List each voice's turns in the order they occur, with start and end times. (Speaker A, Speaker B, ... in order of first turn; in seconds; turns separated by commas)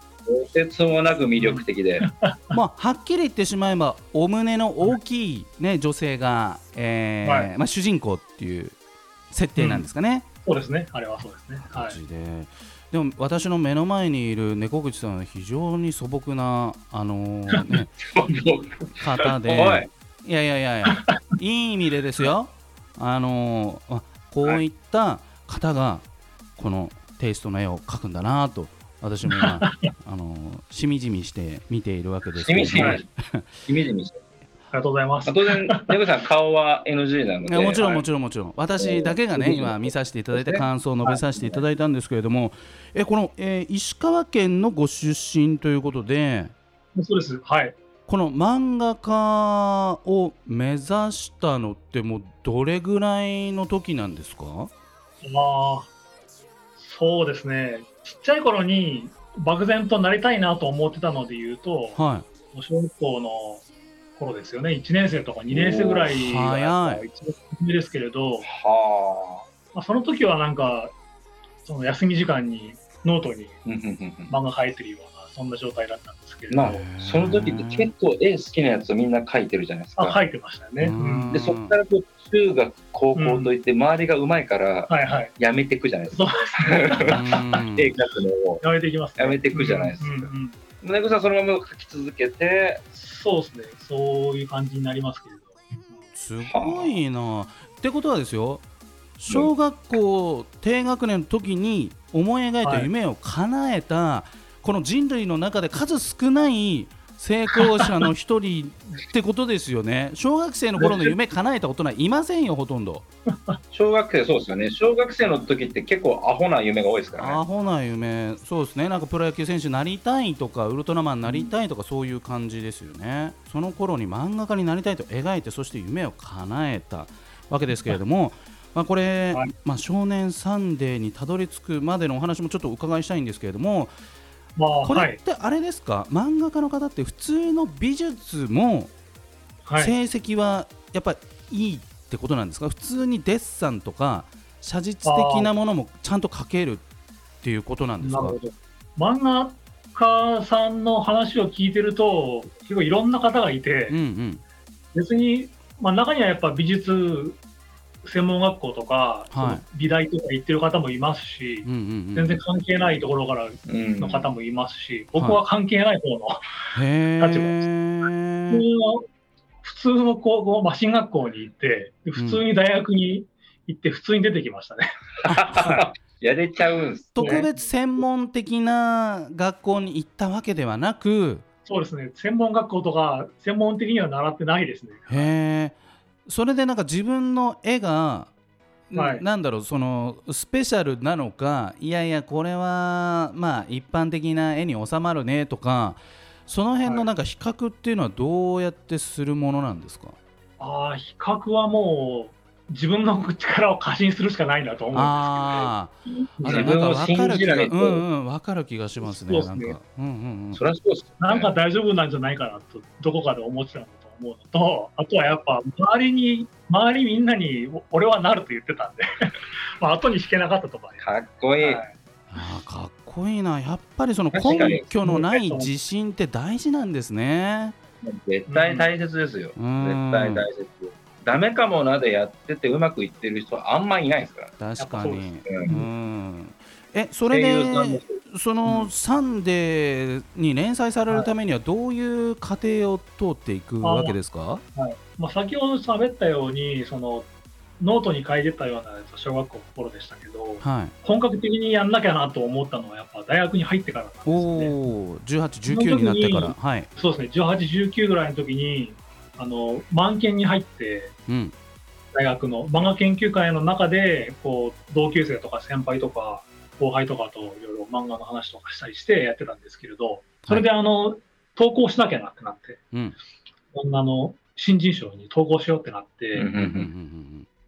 Speaker A: 0.3-2.1, Speaker B: 1.4-2.5, Speaker C: 2.5-8.8, Speaker B: 7.2-7.5, Speaker C: 9.3-10.2, Speaker B: 9.6-9.8, Speaker B: 10.4-12.0, Speaker C: 11.6-17.9, Speaker A: 18.0-19.9, Speaker C: 19.0-26.0, Speaker B: 20.9-21.2, Speaker C: 26.6-33.4, Speaker B: 29.3-29.9, Speaker A: 32.4-33.1, Speaker B: 32.7-33.0, Speaker A: 33.6-34.2, Speaker B: 34.7-35.9, Speaker A: 35.2-38.0, Speaker C: 37.5-46.5, Speaker A: 38.8-40.6, Speaker B: 46.9-47.8, Speaker C: 48.1-54.7, Speaker B: 55.2-55.9, Speaker B: 56.8-62.0, Speaker C: 61.9-62.3, Speaker B: 62.5-63.6, Speaker B: 64.2-68.5, Speaker A: 65.5-66.1, Speaker C: 66.1-67.0, Speaker A: 68.4-69.4, Speaker B: 69.7-70.9, Speaker B: 71.7-73.5, Speaker A: 73.6-74.3, Speaker B: 74.3-76.8, Speaker A: 76.5-80.2, Speaker C: 76.6-77.9, Speaker B: 80.0-81.3, Speaker C: 80.8-81.8, Speaker A: 81.3-88.6, Speaker B: 83.1-83.5, Speaker B: 84.9-85.3, Speaker B: 86.1-87.6, Speaker C: 87.1-87.9, Speaker B: 88.6-90.5, Speaker A: 89.2-90.3, Speaker A: 90.8-92.8, Speaker B: 92.9-96.0, Speaker C: 96.1-98.6, Speaker A: 96.4-96.9, Speaker C: 99.2-113.0, Speaker B: 102.6-102.9, Speaker A: 110.8-111.1, Speaker B: 113.3-113.6, Speaker A: 113.7-117.4, Speaker C: 117.2-133.9, Speaker B: 134.6-135.2, Speaker C: 134.8-138.9, Speaker B: 139.7-139.9, Speaker C: 139.8-146.8, Speaker B: 145.0-145.5, Speaker C: 147.4-148.3, Speaker B: 148.0-154.0, Speaker C: 153.9-154.4, Speaker B: 154.9-157.4, Speaker B: 158.0-166.4, Speaker C: 159.3-159.6, Speaker C: 161.6-162.4, Speaker A: 163.7-164.3, Speaker C: 166.7-168.6, Speaker B: 167.2-167.6, Speaker B: 168.5-169.1, Speaker B: 169.6-175.8, Speaker C: 172.2-172.4, Speaker A: 175.2-177.5, Speaker C: 177.2-181.4, Speaker B: 177.2-177.5, Speaker B: 181.7-185.3, Speaker C: 185.1-185.7, Speaker C: 186.2-188.3, Speaker C: 188.9-200.2, Speaker B: 188.9-189.2, Speaker B: 200.6-205.7, Speaker C: 204.9-210.6, Speaker B: 206.4-206.7, Speaker A: 206.4-208.0, Speaker B: 209.0-209.8, Speaker A: 210.5-211.5, Speaker B: 211.2-221.9, Speaker A: 221.0-221.8, Speaker C: 222.3-227.8, Speaker A: 224.3-224.8, Speaker B: 225.0-225.7, Speaker A: 228.0-234.5, Speaker B: 228.5-228.9, Speaker C: 229.6-230.4, Speaker C: 234.6-244.6, Speaker B: 234.8-235.8, Speaker A: 237.3-238.2, Speaker B: 243.8-244.2, Speaker B: 244.7-247.3, Speaker B: 247.8-254.7, Speaker C: 250.6-250.9, Speaker C: 254.2-256.9, Speaker B: 255.7-261.1, Speaker C: 261.3-261.5, Speaker B: 262.1-272.8, Speaker B: 273.7-276.5, Speaker A: 276.3-276.9, Speaker C: 276.5-277.5